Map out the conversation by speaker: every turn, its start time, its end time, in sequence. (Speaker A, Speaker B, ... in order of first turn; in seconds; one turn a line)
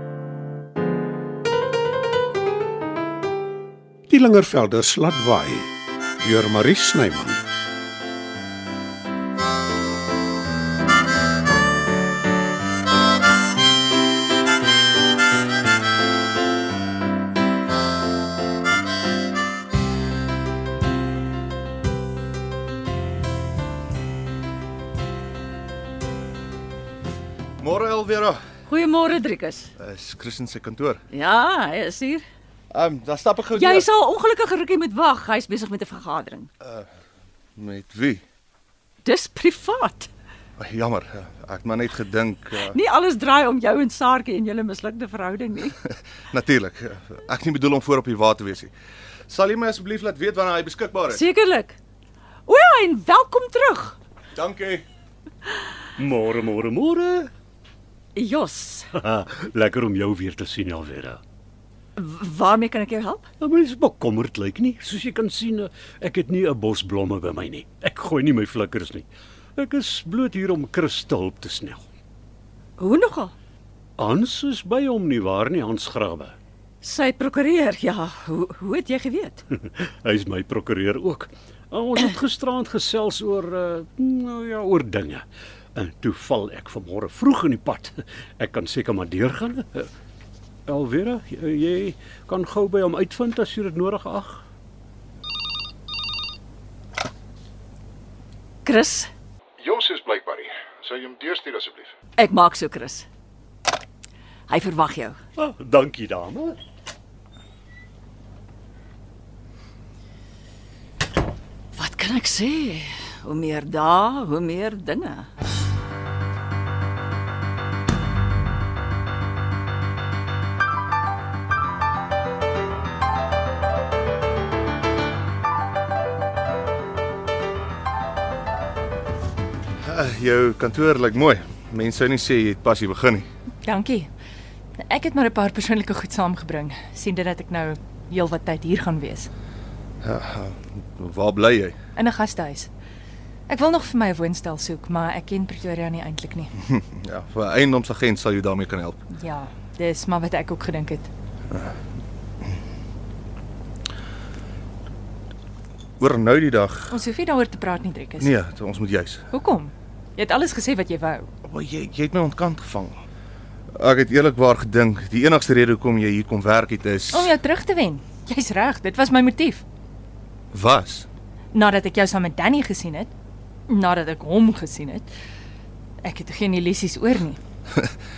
Speaker A: 4.1-7.4
Speaker B: 27.6-28.4
Speaker C: 28.7-29.7
Speaker B: 29.8-31.0
Speaker C: 31.1-32.3
Speaker B: 32.7-33.9
Speaker C: 33.5-36.5
Speaker B: 37.6-38.2
Speaker C: 39.0-40.1
Speaker B: 40.6-42.8
Speaker C: 42.7-45.7
Speaker B: 45.9-48.7
Speaker B: 49.3-51.3
Speaker C: 51.1-51.8
Speaker C: 52.5-54.0
Speaker B: 54.3-54.8
Speaker D: 56.0-57.3
Speaker C: 58.1-58.9
Speaker D: 58.9-61.2
Speaker C: 62.0-63.3
Speaker D: 63.4-69.0
Speaker D: 69.6-71.9
Speaker C: 72.8-73.3
Speaker D: 74.0-76.3
Speaker C: 76.8-79.4
Speaker D: 79.5-89.9
Speaker D: 90.7-94.4
Speaker C: 98.6-99.1
Speaker E: 99.6-101.9
Speaker C: 102.2-103.1
Speaker C: 104.5-105.2
Speaker D: 105.4-106.6
Speaker C: 111.8-115.3
Speaker B: 129.8-133.3
Speaker F: 133.6-134.1
Speaker F: 134.8-139.3
Speaker B: 140.0-141.8
Speaker F: 142.0-142.7
Speaker F: 143.5-146.5
Speaker B: 146.7-149.0
Speaker F: 149.1-151.1
Speaker B: 156.0-157.0
Speaker F: 156.9-158.3
Speaker B: 158.2-159.3
Speaker F: 159.3-161.3
Speaker B: 161.4-163.0
Speaker B: 163.8-167.3
Speaker F: 167.1-169.6
Speaker B: 170.5-171.1
Speaker F: 171.5-173.1
Speaker F: 173.7-175.1
Speaker F: 176.0-177.4